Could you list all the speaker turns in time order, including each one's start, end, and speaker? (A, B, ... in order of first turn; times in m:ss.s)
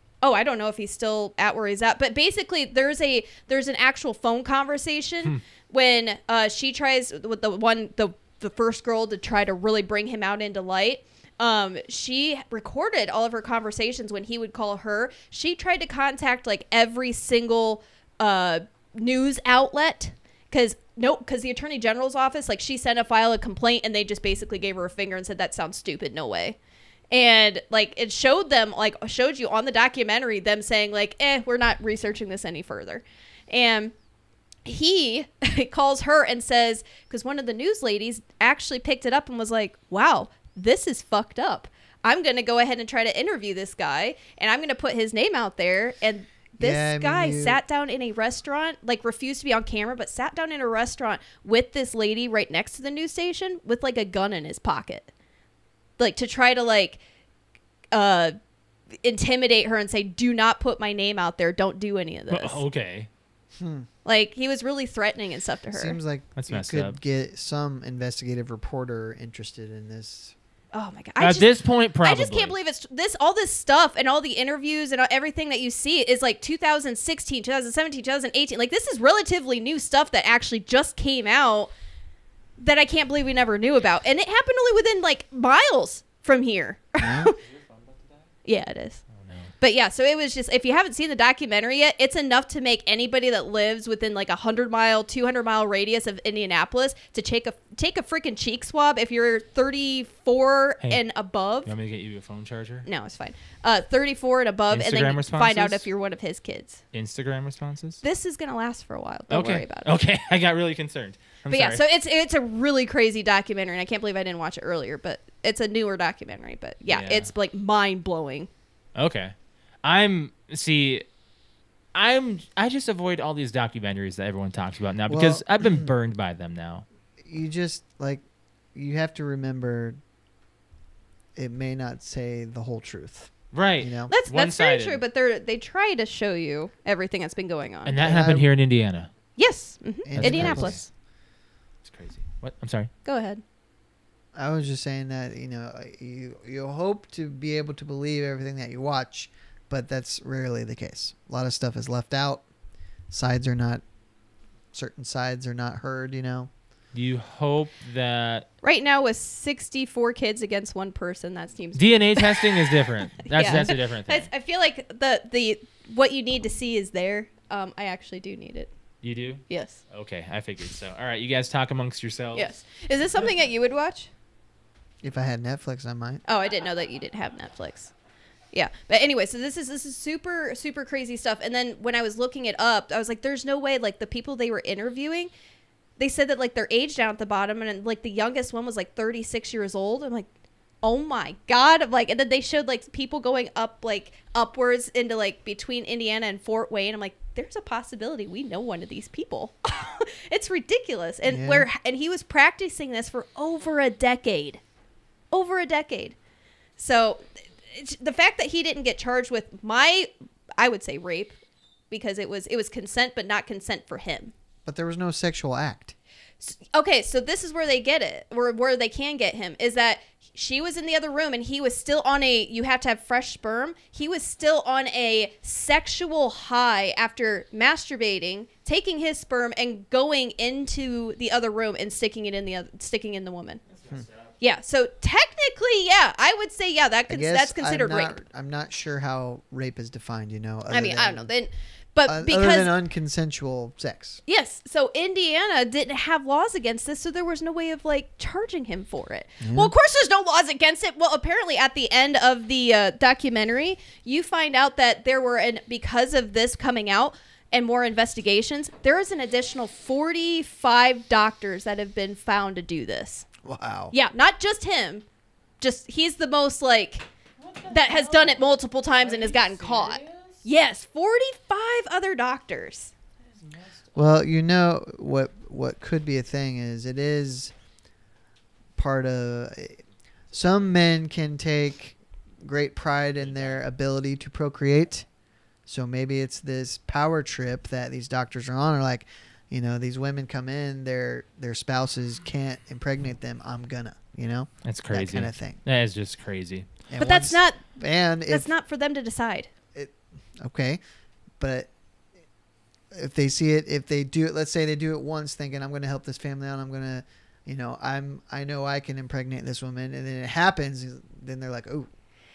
0:00.2-0:26.6 A
0:27.1-0:33.9 A
0:34.6-0:55.1 A
0:46.6-0:47.6 B
0:56.0-0:57.0 A
0:57.9-0:58.4 A
0:59.0-1:02.6 A
1:02.3-1:03.1 C
1:03.6-1:03.9 B
1:04.0-1:06.0 A
1:05.7-1:10.4 B
1:06.4-1:07.0 C
1:10.7-1:11.5 A
1:11.2-1:12.6 C
1:12.0-1:21.7 A
1:22.6-1:27.4 A
1:27.0-1:27.3 B
1:27.4-1:28.2 C
1:28.5-1:29.0 A
1:29.2-1:29.5 C
1:29.6-1:41.7 A
1:41.7-1:42.9 C
1:42.8-1:46.8 A
1:44.7-1:45.9 C
1:46.9-1:48.0 C
1:48.0-1:50.0 A
1:49.3-1:51.8 C
1:51.5-1:58.5 A
1:56.9-1:57.3 C
1:59.0-2:01.0 C
2:01.9-2:06.8 C
2:05.1-2:05.9 B
2:07.2-2:08.2 B
2:08.8-2:10.0 B
2:11.4-2:14.1 B
2:13.5-2:15.0 C
2:14.1-2:18.0 A
2:17.9-2:19.1 C
2:18.0-2:18.5 B
2:19.4-2:20.9 A
2:20.1-2:20.8 B
2:20.2-2:20.8 C
2:21.8-2:22.9 C
2:23.0-2:23.4 A
2:24.4-2:32.4 B
2:33.1-2:33.8 B
2:34.7-2:36.5 B
2:36.9-2:38.5 C
2:38.6-2:48.7 A
2:41.8-2:44.3 C
2:49.0-2:52.5 C
2:49.5-2:49.8 A
2:52.3-2:54.1 A
2:55.0-2:56.2 B
2:56.3-2:57.9 A
2:58.5-3:05.3 A
3:06.0-3:10.3 A
3:10.8-3:24.6 A
3:21.3-3:21.7 B
3:25.3-3:26.2 A
3:26.8-3:31.4 A
3:31.9-3:34.3 A
3:34.6-3:36.0 B
3:36.4-3:53.6 A
3:53.8-3:54.1 C
3:54.4-3:58.2 A
3:57.1-4:01.3 B
4:00.7-4:02.7 A
4:02.1-4:04.2 B
4:04.3-4:23.3 A
4:09.4-4:09.7 B
4:23.4-4:23.9 B
4:23.9-4:25.0 A
4:25.6-4:27.0 A
4:27.4-4:28.4 C
4:27.7-4:32.9 A
4:29.0-4:30.4 C
4:33.4-4:33.9 C
4:34.0-4:37.5 B
4:38.8-4:45.1 B
4:45.7-4:55.6 B
4:54.6-4:56.7 C
4:56.9-4:58.5 B
4:57.0-4:57.6 A
4:58.3-4:59.5 A
4:59.7-5:00.8 B
5:01.4-5:01.7 B
5:02.9-5:11.9 B